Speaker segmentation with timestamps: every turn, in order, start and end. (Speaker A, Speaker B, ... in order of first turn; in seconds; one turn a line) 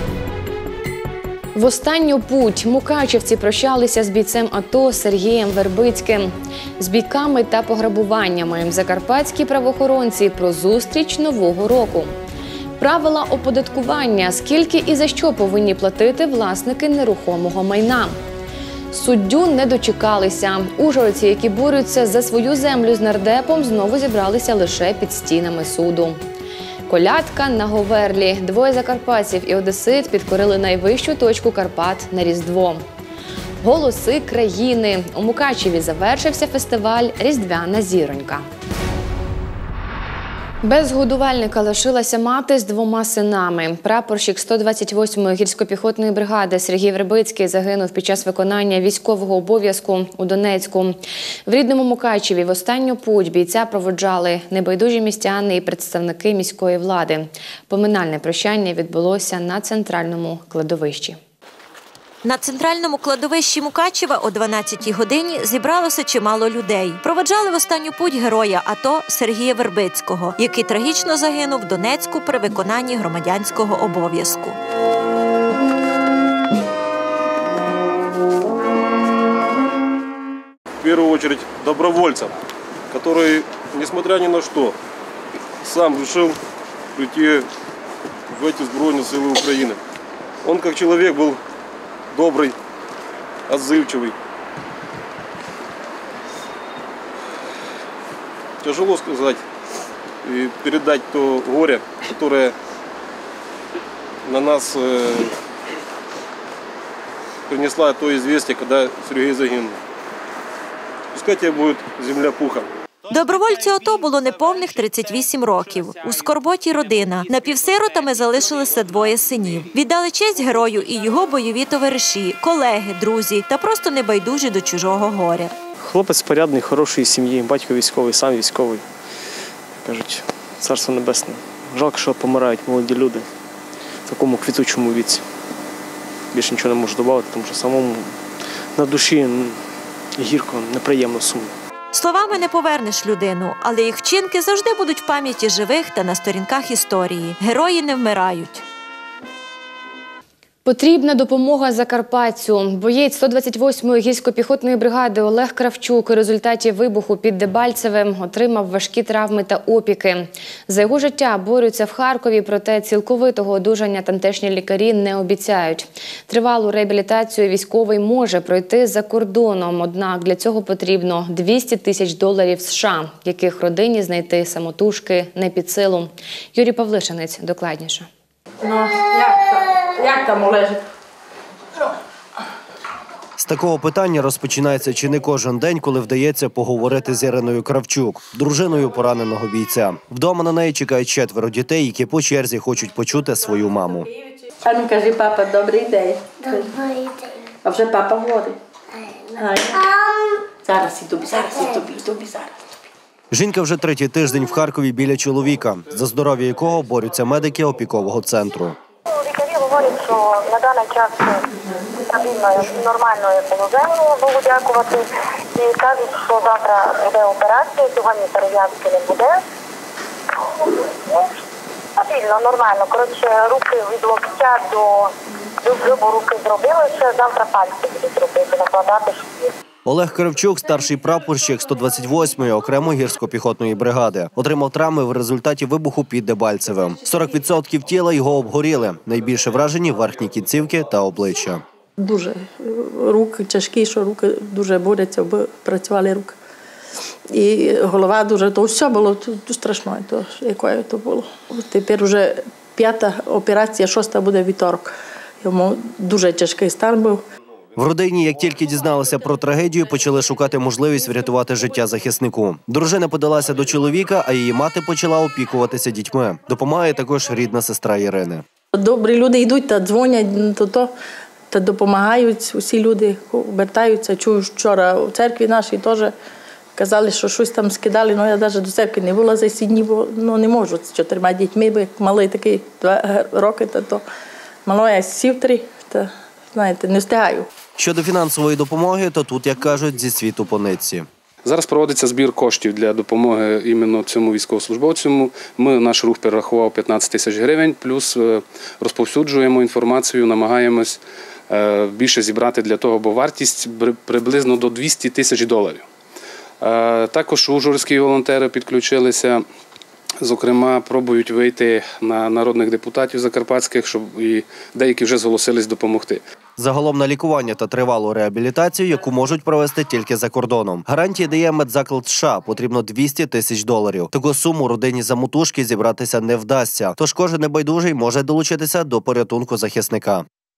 Speaker A: 1.6-12.1
Speaker A: 12.8-18.2
Speaker A: 18.9-26.2
Speaker A: 26.9-32.8
Speaker A: 33.6-38.5
Speaker A: 40.6-61.2
Speaker B: 62.2-74.6
Speaker C: 80.8-82.3
Speaker C: 82.9-84.8
Speaker C: 85.6-86.4
Speaker C: 87.0-87.5
Speaker C: 88.3-89.8
Speaker C: 90.4-91.4
Speaker C: 92.1-92.5
Speaker C: 93.5-94.2
Speaker C: 98.6-99.4
Speaker C: 100.2-102.5
Speaker C: 104.2-105.3
Speaker C: 107.5-109.8
Speaker C: 111.1-112.7
Speaker B: 113.1-125.5
Speaker D: 125.8-128.8
Speaker D: 129.8-133.3
Speaker D: 134.1-135.3
Speaker D: 136.3-139.7
Speaker D: 140.2-141.6
Speaker B: 141.9-148.6
Speaker A: 150.7-178.1
Speaker E: 178.6-180.8
Speaker F: 183.4-194.1
Speaker E: 194.6-196.7
Speaker E: 197.6-198.6
Speaker E: 199.3-199.9
Speaker E: 200.6-202.6
Speaker F: 203.3-208.8
Speaker G: 209.1-211.5
Speaker G: 212.1-219.4
Speaker G: 220.4-221.4
Speaker G: 222.0-225.1
Speaker G: 225.6-229.5
Speaker F: 229.8-241.6
Speaker E: 242.0-246.4
Speaker E: 247.3-257.2
Speaker F: 257.8-268.4
Speaker E: 268.7-270.9
Speaker E: 271.5-276.1
Speaker E: 276.8-284.0
Speaker E: 284.7-287.5
Speaker F: 287.8-291.1
Speaker H: 291.4-305.9
Speaker H: 306.6-309.5
Speaker H: 310.2-316.2
Speaker F: 316.6-330.3